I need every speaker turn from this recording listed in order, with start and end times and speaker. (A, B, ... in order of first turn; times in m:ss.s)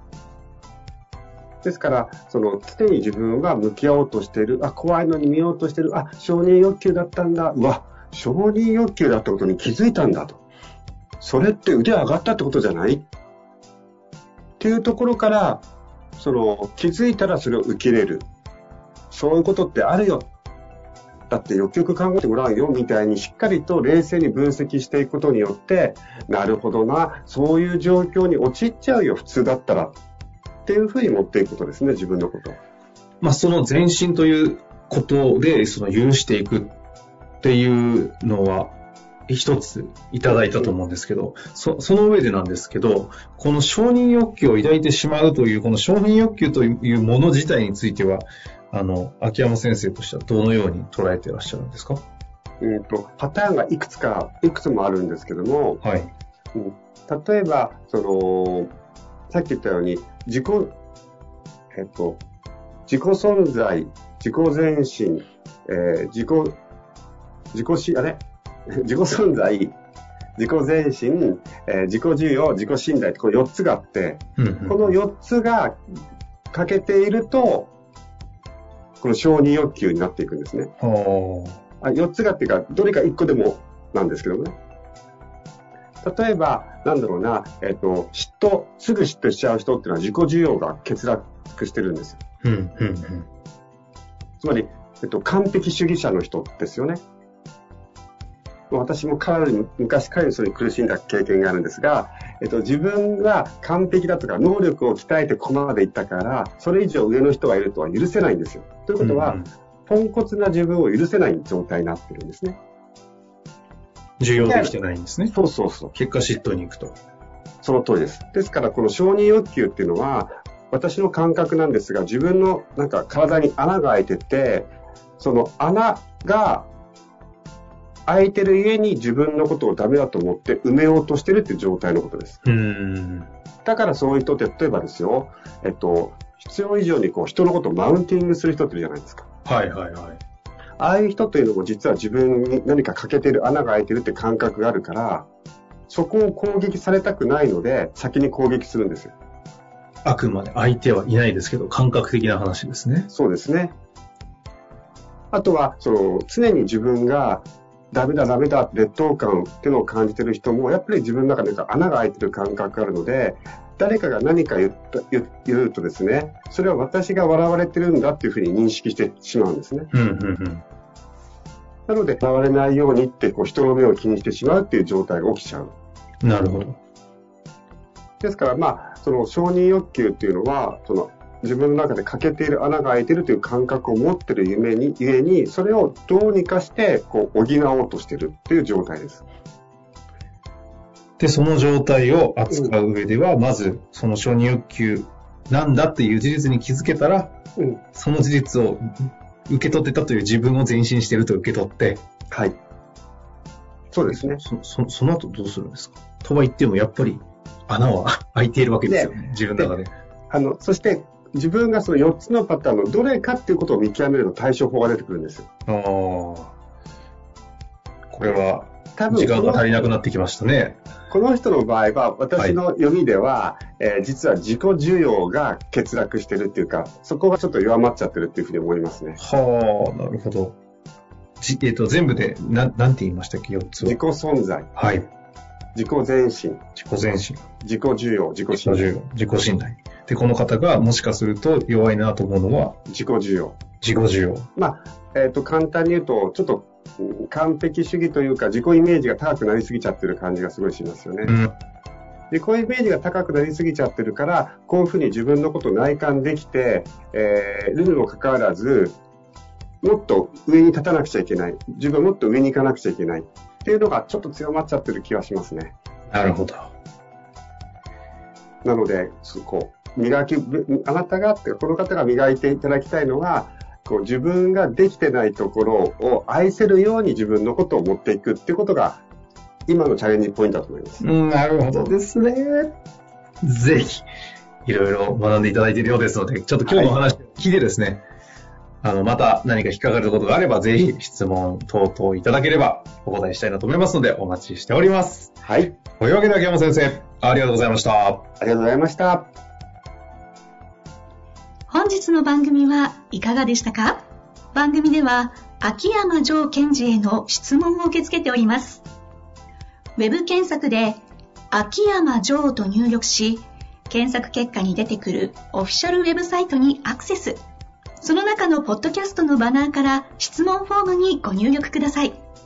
0:01.6-0:10.4 A
0:11.2-0:13.1 A
0:14.6-0:15.6 A
0:16.2-0:18.2 A
0:19.1-0:20.3 A
0:21.3-0:30.0 A
0:30.6-0:32.6 A
0:33.2-0:36.8 B
0:37.4-0:38.8 B
0:39.3-0:52.0 B
0:52.6-0:55.8 A
0:55.8-0:56.1 B
0:56.5-0:58.7 A
0:59.3-1:00.7 A
1:01.7-1:02.2 A
1:02.9-1:06.6 A
1:07.5-1:09.8 A
1:10.4-1:15.8 A
1:14.4-1:14.9 B
1:16.5-1:17.7 A
1:19.0-1:20.7 A
1:20.8-1:21.6 B
1:21.8-1:24.6 A
1:26.0-1:32.2 A
1:32.4-1:33.3 B
1:34.4-1:37.0 A
1:38.7-1:52.6 A
1:49.0-1:49.5 B
1:54.2-1:55.3 B
1:54.4-1:54.7 A
1:55.3-1:55.9 A
1:55.9-1:57.0 B
1:57.6-2:06.7 A
2:08.1-2:12.4 A
2:12.4-2:13.3 B
2:13.6-2:19.3 A
2:19.4-2:20.2 B
2:20.8-2:25.3 A
2:25.9-2:29.1 A
2:30.0-2:33.1 B
2:33.1-2:33.7 A
2:35.3-2:49.9 A
2:49.9-2:50.6 B
2:51.9-2:55.7 A
2:56.2-2:56.8 B
2:58.2-3:09.2 A
3:11.2-3:17.3 B
3:17.6-3:17.8 A
3:17.9-3:22.0 B
3:22.3-3:22.6 A
3:23.9-3:24.4 A
3:24.1-3:29.9 B
3:28.9-3:29.7 A
3:30.3-3:35.5 A
3:35.7-3:36.5 B
3:38.1-3:40.8 B
3:39.0-3:39.9 A
3:41.1-3:49.2 A
3:49.2-3:50.6 B
3:51.4-3:54.0 B
3:53.8-3:54.7 A
3:54.8-3:55.1 B
3:55.8-3:56.6 A
3:56.8-3:57.4 B
3:57.6-3:58.9 A
3:58.5-4:02.8 B
4:02.9-4:03.6 A
4:03.8-4:04.5 B
4:04.6-4:11.4 A
4:11.3-4:11.6 B
4:12.3-4:19.0 A
4:19.8-4:25.7 A
4:26.1-4:26.7 B
4:28.6-4:39.0 A
4:39.7-4:41.0 A
4:41.0-4:42.8 B
4:43.4-4:44.0 B
4:44.6-4:48.0 B
4:46.6-4:47.0 A
4:48.8-4:55.4 B
4:55.4-4:55.7 A
4:56.0-4:58.3 B
4:58.4-4:59.3 A
5:01.7-5:04.0 C
5:04.5-5:08.9 C
5:10.0-5:17.4 C
5:18.0-5:22.2 C